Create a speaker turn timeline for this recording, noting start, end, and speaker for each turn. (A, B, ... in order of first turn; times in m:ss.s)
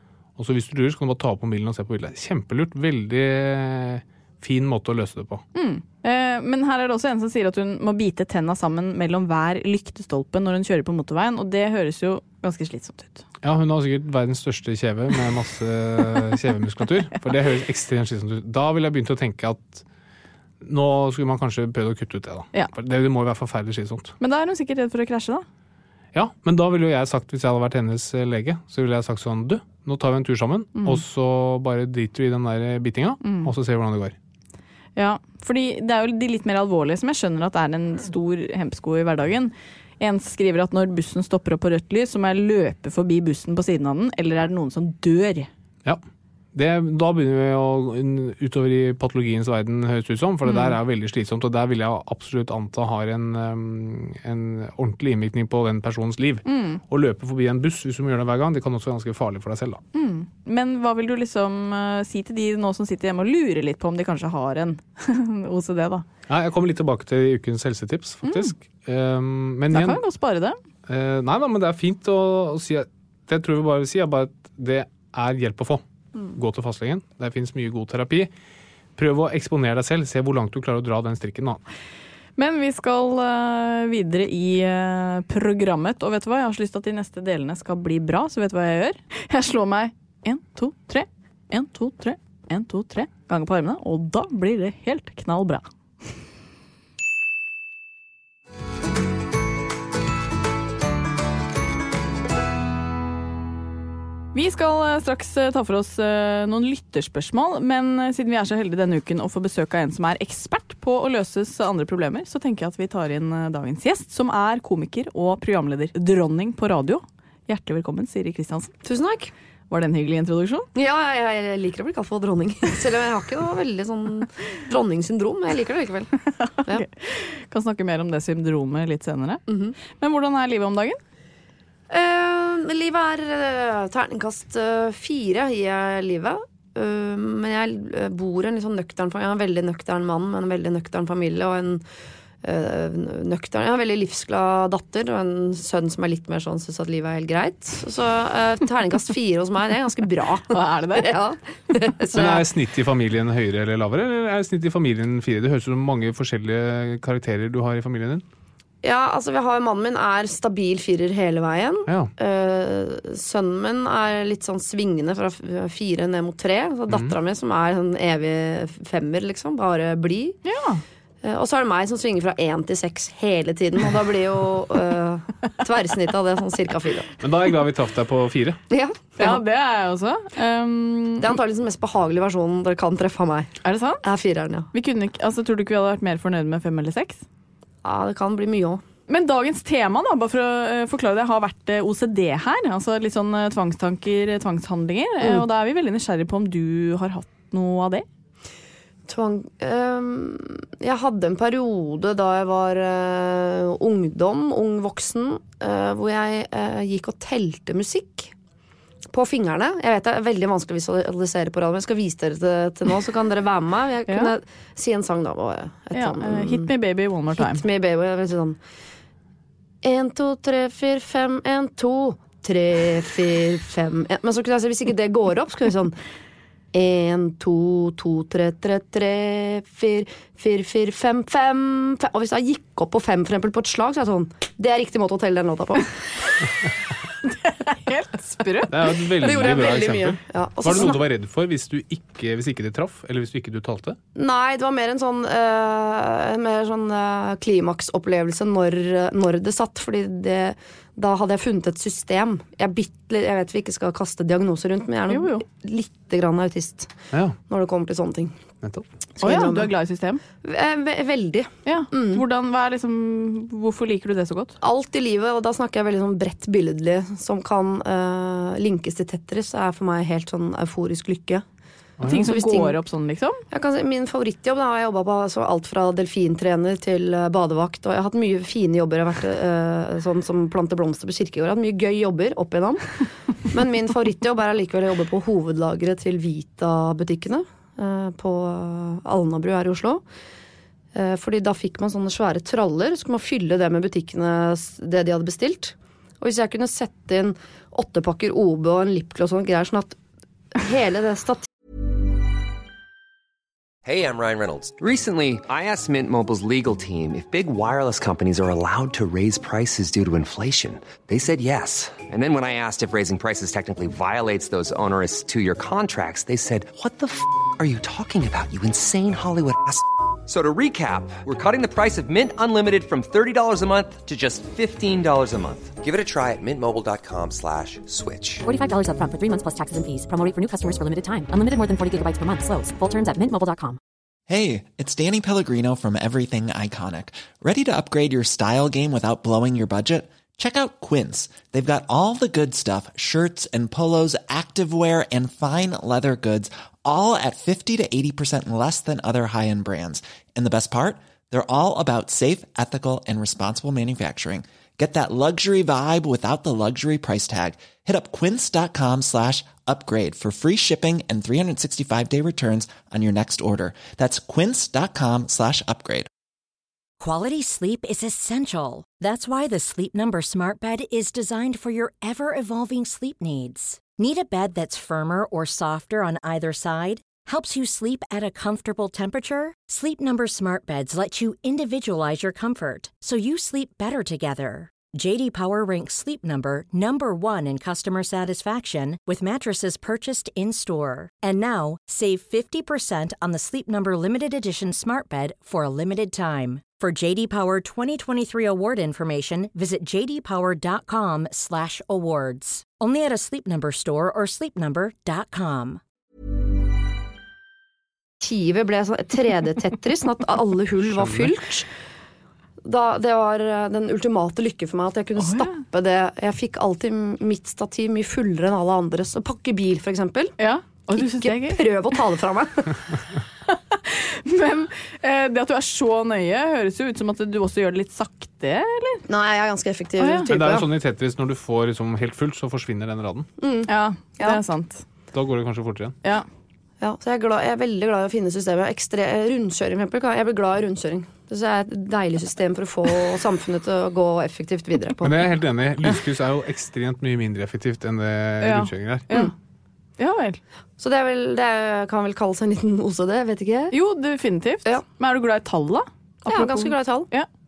0:00.4-0:05.4 A
0:05.6-0:13.2 B
0:13.4-0:19.8 A
0:20.6-0:24.1 A
0:24.2-0:25.4 B
0:26.1-0:34.2 A
0:30.8-0:31.0 B
0:33.2-0:33.5 B
0:35.0-0:45.5 B
0:46.5-0:59.8 A
0:50.5-0:50.8 B
0:56.5-0:56.8 B
0:59.9-1:06.1 B
1:06.3-1:10.0 A
1:08.2-1:08.5 B
1:09.7-1:10.6 B
1:10.9-1:18.3 A
1:19.0-1:21.6 A
1:22.4-1:35.6 B
1:44.3-1:58.7 B
1:58.8-1:59.3 C
1:59.7-2:00.7 B
2:00.8-2:06.1 C
2:06.4-2:09.4 B
2:09.5-2:09.8 C
2:10.0-2:11.0 B
2:11.9-2:21.8 C
2:22.4-2:32.5 C
2:30.5-2:31.2 B
2:32.1-2:38.2 A
2:38.8-2:50.4 C
2:41.9-2:42.1 A
2:46.9-2:47.1 A
2:50.4-2:50.8 B
2:51.2-2:57.1 C
2:57.2-2:58.6 A
2:58.7-2:59.4 C
2:59.2-3:01.3 B
3:01.2-3:03.5 C
3:03.6-3:04.0 B
3:04.0-3:04.7 C
3:04.7-3:07.2 B
3:07.8-3:08.8 C
3:09.1-3:18.1 B
3:19.1-3:28.3 C
3:29.1-3:36.7 C
3:34.1-3:34.3 B
3:35.9-3:37.6 B
3:37.3-3:38.6 C
3:39.8-3:46.0 C
3:46.7-3:56.0 C
3:57.4-3:58.8 B
3:58.7-4:04.0 A
3:59.2-4:01.0 C
4:04.1-4:16.9 C
4:15.1-4:15.4 B
4:17.5-4:18.4 C
4:19.2-4:19.7 C
4:19.2-4:20.2 B
4:20.4-4:22.2 C
4:21.6-4:24.6 B
4:24.6-4:31.4 C
4:32.0-4:32.2 A
4:32.0-4:33.4 B
4:32.1-4:32.8 C
4:33.5-4:42.8 C
4:43.5-4:50.0 C
4:50.9-5:00.0 C
5:00.6-5:01.5 C
5:03.8-5:28.5 D
5:28.5-5:33.8 E
5:34.3-6:06.1 F
6:07.0-6:45.8 G
6:48.2-6:51.7 C
6:50.9-6:51.3 A
6:52.6-7:00.3 C
6:55.2-6:55.5 B
7:00.4-7:01.7 B
7:00.9-7:02.8 C
7:03.5-7:09.0 B
7:09.1-7:10.7 C
7:10.0-7:10.3 B
7:10.3-7:13.3 A
7:13.4-7:14.4 C
7:13.7-7:14.8 B
7:15.1-7:16.0 A
7:16.8-7:25.3 C
7:25.0-7:29.1 A
7:28.4-7:29.3 B
7:30.0-7:30.4 B
7:30.8-7:33.8 C
7:33.7-7:37.3 B
7:36.3-7:37.1 C